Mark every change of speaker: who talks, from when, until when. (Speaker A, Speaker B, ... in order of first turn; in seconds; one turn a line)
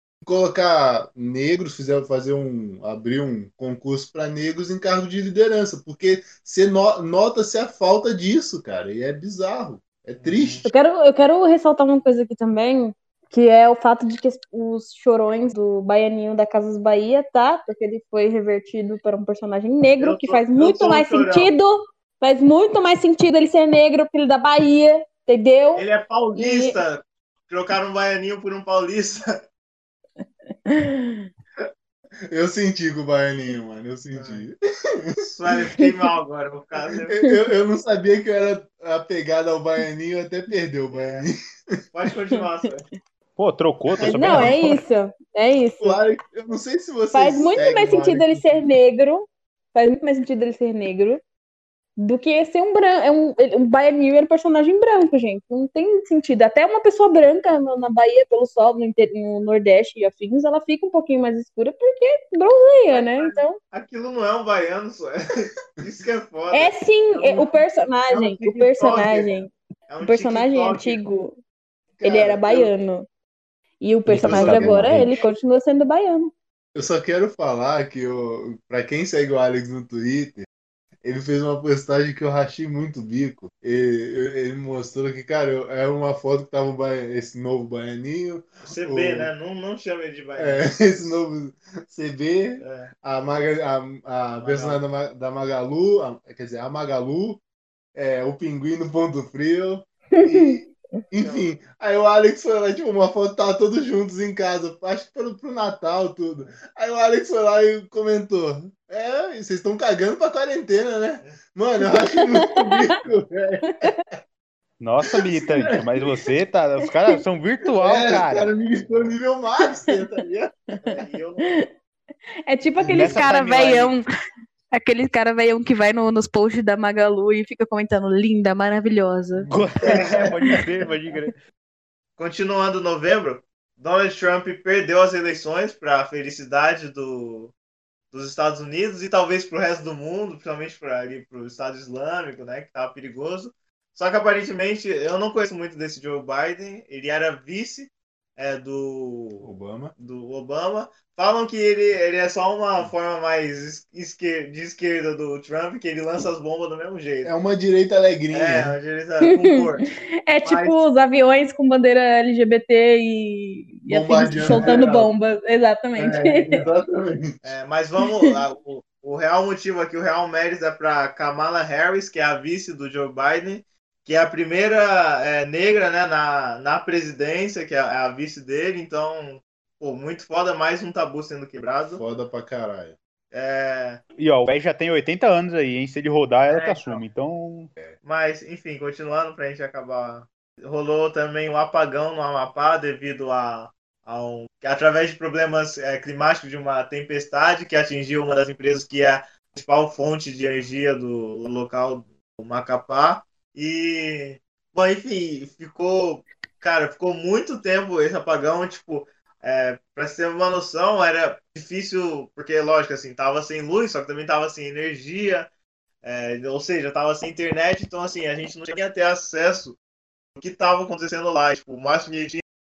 Speaker A: 0.2-10.7
Speaker B: 10.2-10.7
Speaker C: 10.7-26.8
Speaker B: 20.0-21.5
Speaker B: 25.8-29.4
Speaker C: 30.7-31.3
Speaker A: 32.3-35.2
Speaker B: 34.1-34.5
Speaker B: 35.2-37.2
Speaker A: 37.1-41.8
Speaker B: 40.9-41.2
Speaker B: 41.9-42.9
Speaker D: 43.4-44.6
Speaker A: 44.0-44.6
Speaker C: 44.0-46.0
Speaker A: 45.8-48.7
Speaker C: 47.1-51.2
Speaker C: 52.0-63.6
Speaker B: 62.9-69.3
Speaker C: 66.5-71.4
Speaker B: 69.9-71.0
Speaker A: 72.0-72.7
Speaker C: 72.0-73.0
Speaker C: 73.8-76.3
Speaker D: 74.1-75.1
Speaker A: 74.2-75.2
Speaker A: 76.8-80.5
Speaker A: 81.0-89.3
Speaker B: 88.7-91.2
Speaker A: 90.4-97.4
Speaker B: 92.6-92.9
Speaker B: 94.4-94.8
Speaker A: 98.0-113.9
Speaker C: 100.1-100.6
Speaker B: 101.2-101.5
Speaker C: 112.0-112.8
Speaker C: 113.7-114.0
Speaker D: 114.8-118.5
Speaker A: 115.3-116.2
Speaker A: 117.7-121.0
Speaker B: 120.8-121.6
Speaker C: 122.5-124.0
Speaker A: 122.8-123.2
Speaker B: 122.9-123.9
Speaker D: 122.9-123.8
Speaker C: 124.7-129.5
Speaker A: 129.3-130.1
Speaker D: 129.5-131.4
Speaker B: 129.9-130.3
Speaker B: 132.2-137.5
Speaker B: 138.1-157.3
Speaker A: 149.4-149.9
Speaker A: 157.2-158.8
Speaker B: 158.3-159.9
Speaker C: 160.3-166.6
Speaker B: 160.4-160.8
Speaker A: 163.9-165.1
Speaker B: 164.4-164.9
Speaker A: 166.0-167.5
Speaker B: 167.4-182.0
Speaker A: 181.9-183.0
Speaker B: 183.3-184.0
Speaker D: 184.2-187.7
Speaker B: 186.5-187.0
Speaker B: 188.0-215.5
Speaker B: 216.0-219.8
Speaker B: 220.4-222.4